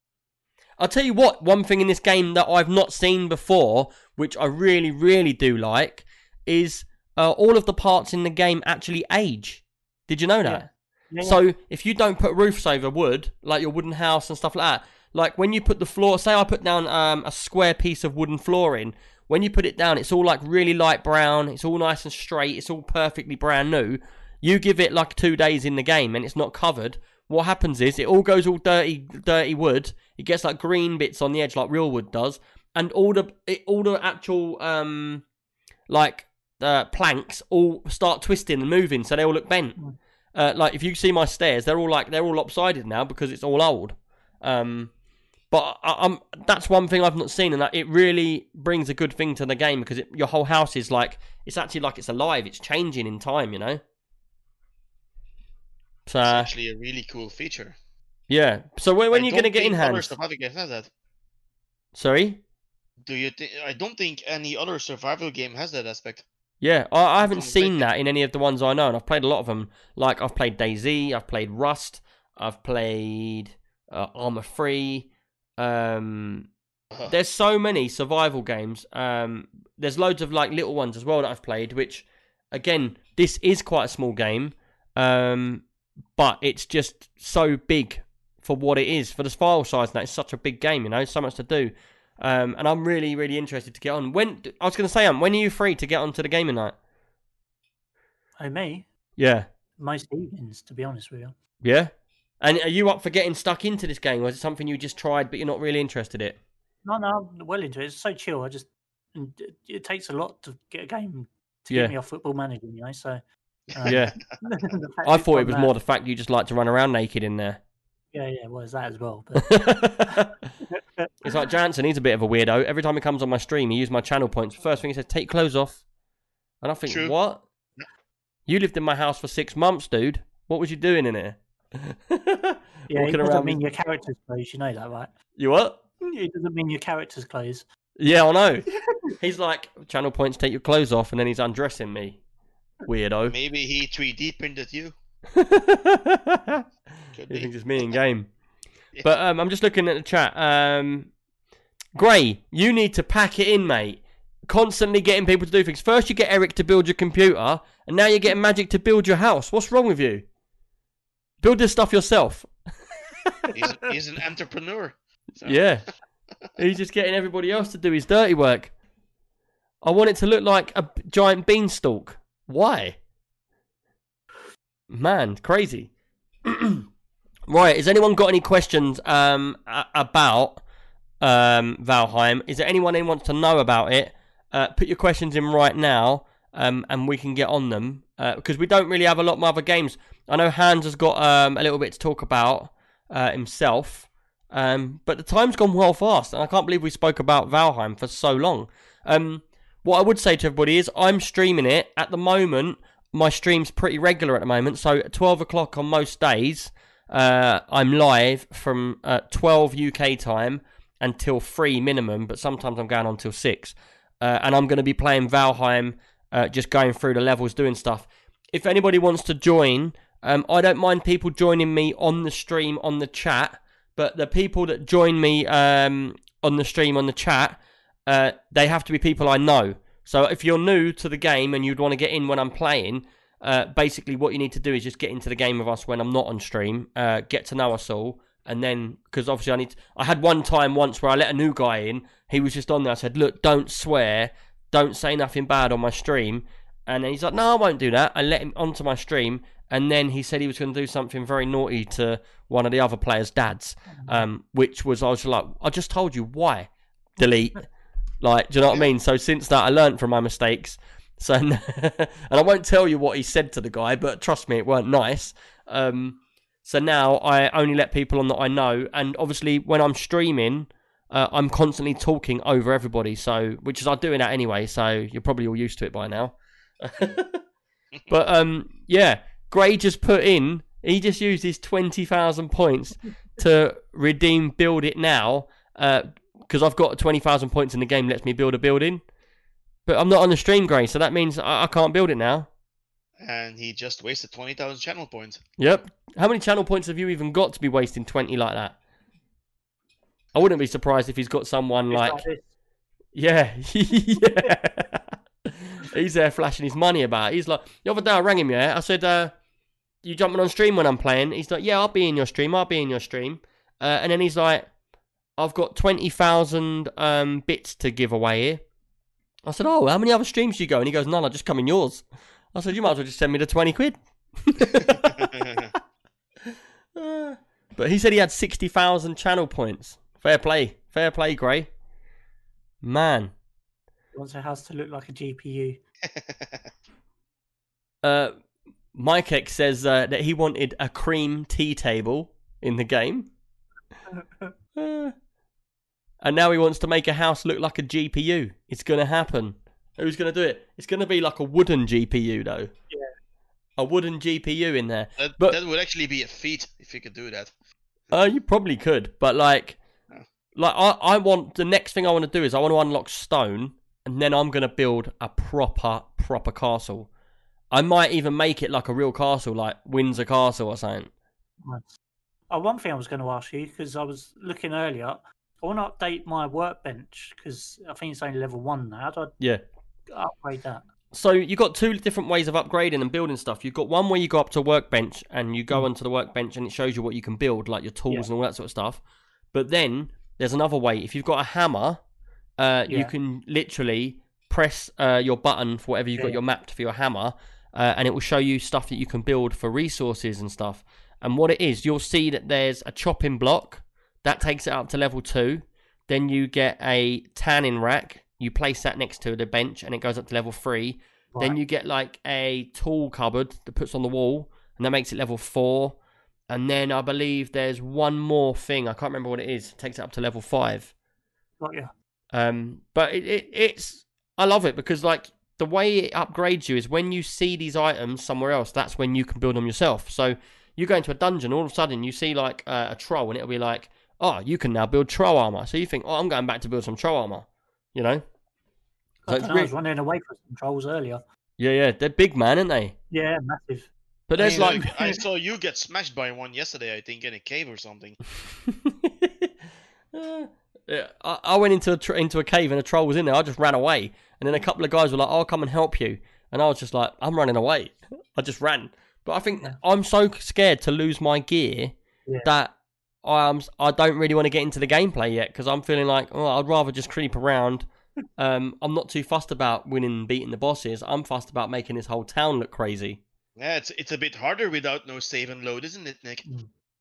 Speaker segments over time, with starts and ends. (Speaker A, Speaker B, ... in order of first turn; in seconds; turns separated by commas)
Speaker A: 0.8-10.7, Speaker B: 10.4-11.4, Speaker A: 11.2-35.2, Speaker A: 35.9-39.8, Speaker A: 40.3-44.9, Speaker A: 45.5-53.8, Speaker A: 56.1-56.5, Speaker C: 56.2-57.8, Speaker A: 58.3-60.1, Speaker C: 59.1-60.9, Speaker A: 62.0-62.4, Speaker C: 63.0-66.2, Speaker A: 66.6-76.5, Speaker C: 67.2-67.9, Speaker A: 77.1-85.7, Speaker A: 86.2-96.8, Speaker B: 98.4-98.9, Speaker A: 99.2-99.5, Speaker B: 99.8-101.4, Speaker A: 101.6-106.4, Speaker B: 106.8-113.2, Speaker B: 113.7-115.7, Speaker C: 113.8-114.1, Speaker A: 113.9-114.2, Speaker A: 115.1-117.6, Speaker B: 118.1-121.3, Speaker A: 119.4-120.5, Speaker A: 121.2-125.8, Speaker A: 126.6-127.4, Speaker C: 126.9-127.1, Speaker A: 128.5-133.6, Speaker B: 132.9-135.1, Speaker A: 135.4-135.8, Speaker B: 136.1-137.7, Speaker A: 138.0-138.7, Speaker A: 139.2-142.2, Speaker A: 142.8-143.4, Speaker C: 143.3-144.9, Speaker A: 145.3-146.7, Speaker C: 147.2-147.8, Speaker A: 147.3-148.3, Speaker A: 149.0-151.1, Speaker A: 152.0-160.3, Speaker A: 161.4-162.5, Speaker C: 163.5-165.6, Speaker A: 165.4-165.9, Speaker A: 166.6-168.7, Speaker A: 169.8-173.0, Speaker A: 174.9-175.9, Speaker A: 176.4-176.9, Speaker A: 177.5-180.6, Speaker A: 181.2-257.7, Speaker A: 258.2-277.4, Speaker A: 278.1-289.0, Speaker A: 289.9-292.5, Speaker C: 293.2-295.4, Speaker A: 295.6-298.8, Speaker A: 300.4-302.2, Speaker B: 301.9-302.5, Speaker A: 303.1-309.3, Speaker A: 310.0-314.7, Speaker A: 315.4-318.6, Speaker A: 319.4-325.6, Speaker C: 325.2-325.7, Speaker A: 326.5-331.7, Speaker A: 332.8-333.3, Speaker B: 334.1-335.8, Speaker C: 336.1-336.6, Speaker A: 338.0-338.4, Speaker A: 338.9-343.3, Speaker B: 344.1-344.5, Speaker A: 344.8-345.1, Speaker A: 346.2-352.7, Speaker A: 353.8-355.6, Speaker C: 355.2-357.5, Speaker A: 358.1-359.8, Speaker A: 360.6-367.1, Speaker A: 367.7-371.1, Speaker B: 371.6-371.9, Speaker B: 372.5-379.4, Speaker B: 380.1-380.8, Speaker A: 381.1-389.0, Speaker A: 389.5-392.0, Speaker A: 392.6-416.0, Speaker A: 416.5-420.9, Speaker B: 421.6-421.9, Speaker A: 422.3-438.2, Speaker B: 439.3-441.2, Speaker A: 439.3-439.7, Speaker A: 441.6-442.9, Speaker B: 443.1-445.2, Speaker A: 444.3-444.9, Speaker C: 444.4-448.2, Speaker A: 448.6-449.5, Speaker A: 450.1-467.9, Speaker A: 468.4-473.2, Speaker C: 473.6-476.5